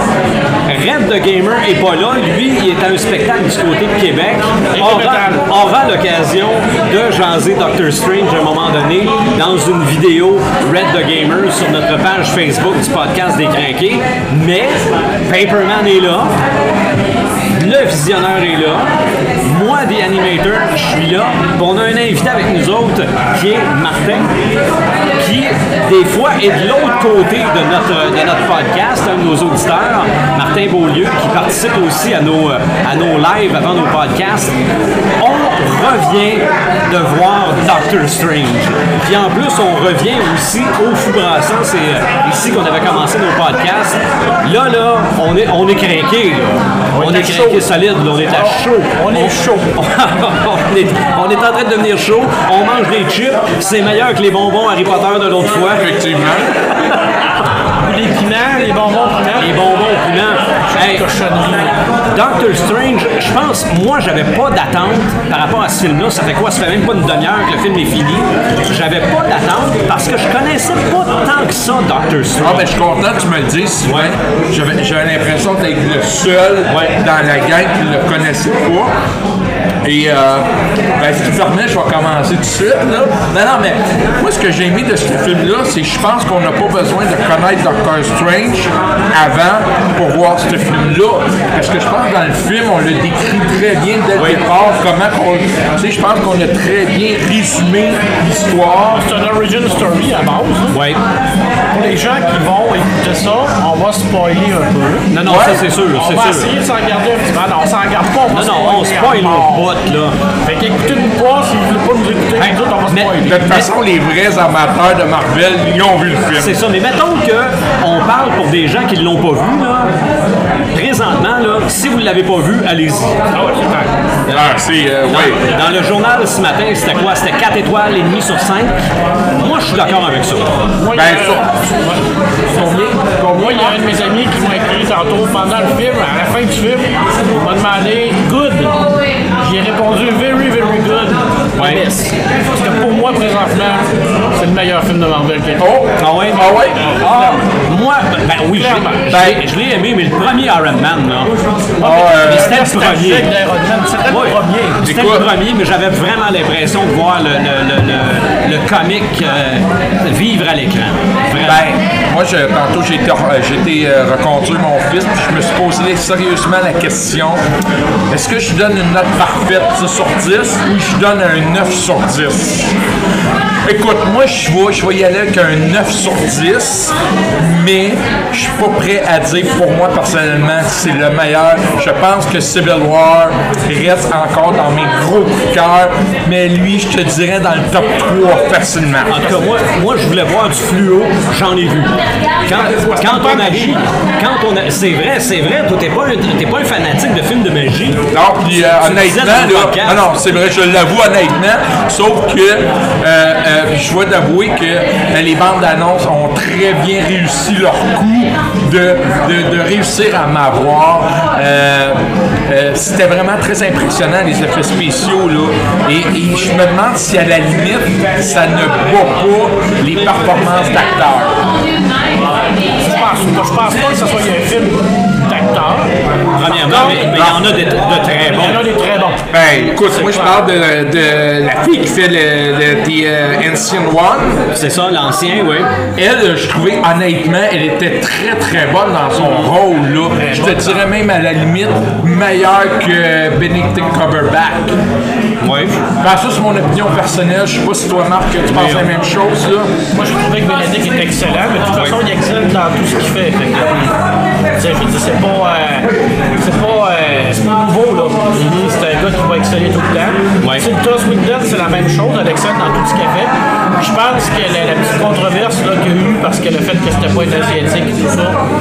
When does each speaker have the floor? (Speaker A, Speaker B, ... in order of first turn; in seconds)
Speaker A: 0.7-16.3, 17.6-18.9, 19.4-24.3, 25.2-34.5, 35.2-55.9, 59.4-61.0, 62.1-72.7, 73.8-74.1, 76.7-76.9, 94.1-94.4, 100.7-101.0, 105.1-106.5, 108.3-110.2, 112.4-113.7, 116.4-119.9, 120.7-123.2, 125.1-128.8, 129.3-130.5, 146.0-151.3, 152.2-153.3, 154.1-161.6, 189.1-198.0, 198.8-200.0, 226.3-228.6, 234.5-235.7, 239.2-239.5, 245.4-245.8, 248.5-248.9, 251.7-252.0, 258.4-258.7, 260.4-260.7
Speaker B: 4.7-5.5, 46.9-47.7, 48.3-49.8, 57.8-59.5, 60.7-61.8, 98.9-100.8, 101.7-105.1, 105.9-109.7, 110.4-113.5, 123.3-123.9, 130.8-132.0, 133.3-138.8, 139.4-145.7, 146.8-147.4, 148.5-149.2, 151.8-154.8, 192.5-193.8, 222.8-225.9, 226.7-227.1, 228.2-230.4, 240.2-240.9, 249.9-253.9, 254.6-268.4
Speaker C: 55.8-56.5, 72.4-78.9, 79.8-99.0, 105.2-105.6, 113.2-116.6, 124.3-125.4, 130.9-131.5, 132.5-133.8, 145.6-147.3, 149.1-149.4, 151.8-152.5, 154.8-155.3, 161.4-167.4, 168.1-172.7, 173.6-189.2, 198.1-221.4, 227.1-227.5, 229.3-234.4, 236.0-244.8, 246.0-249.7